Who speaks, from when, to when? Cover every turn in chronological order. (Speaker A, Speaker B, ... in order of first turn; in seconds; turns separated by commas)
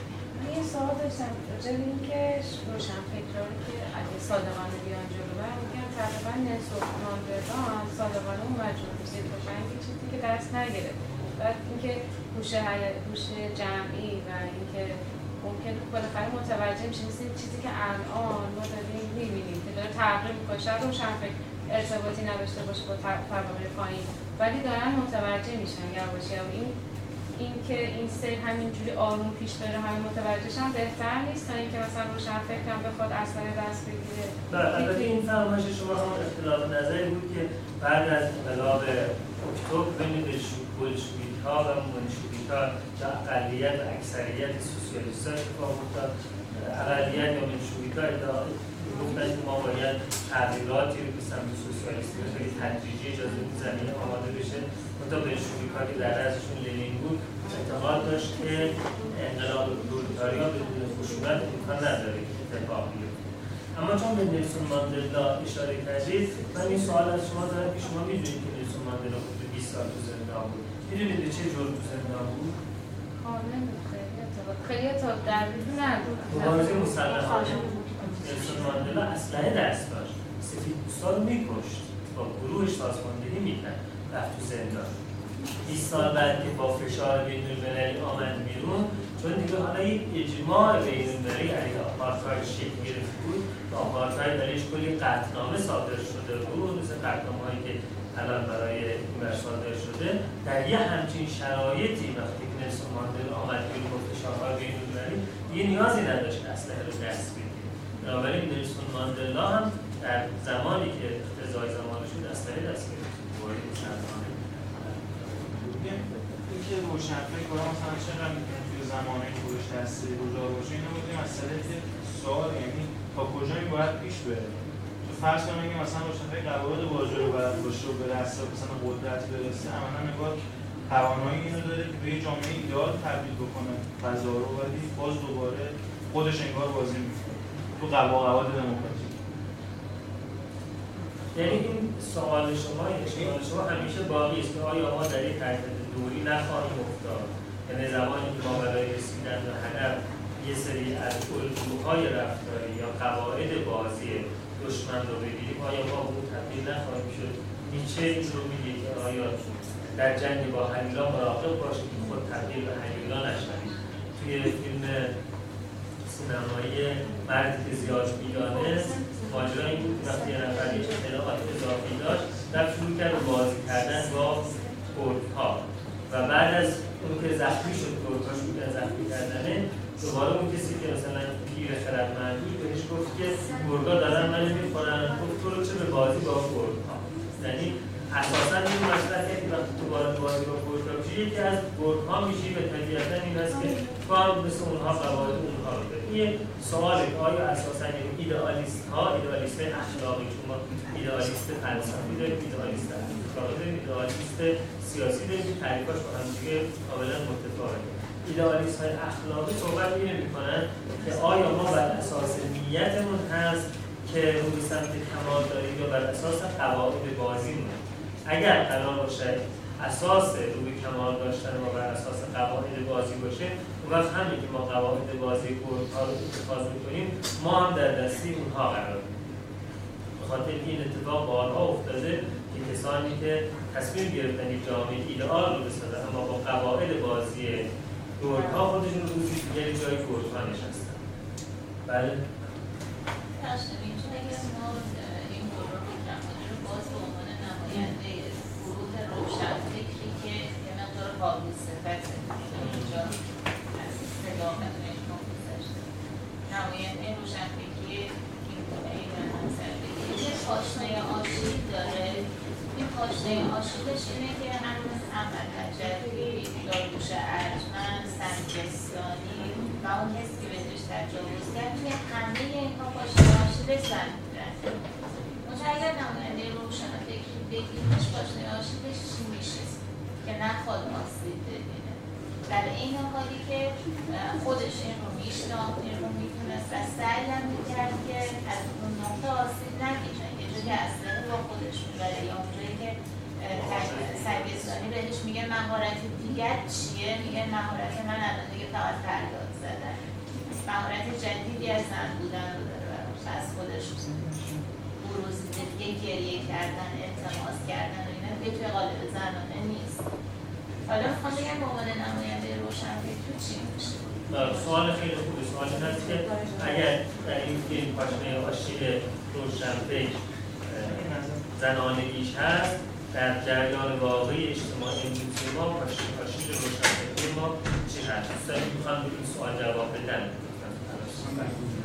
Speaker A: 0.3-26.7, Speaker A: 27.3-35.1, Speaker B: 34.5-63.2, Speaker B: 63.8-72.5, Speaker A: 73.2-79.0, Speaker B: 76.3-77.7, Speaker B: 78.2-84.9, Speaker B: 85.6-115.9, Speaker C: 115.8-139.2, Speaker B: 141.3-159.4, Speaker B: 159.9-165.1, Speaker B: 166.1-229.1, Speaker B: 230.2-237.7, Speaker B: 238.2-241.0, Speaker B: 241.9-242.3, Speaker D: 243.4-253.2, Speaker B: 252.5-253.0, Speaker D: 253.7-255.8, Speaker D: 256.5-274.8, Speaker D: 275.4-300.0, Speaker B: 293.5-294.7, Speaker D: 300.5-304.4, Speaker D: 305.0-310.0, Speaker D: 310.9-314.9, Speaker B: 314.3-331.6, Speaker C: 320.8-321.4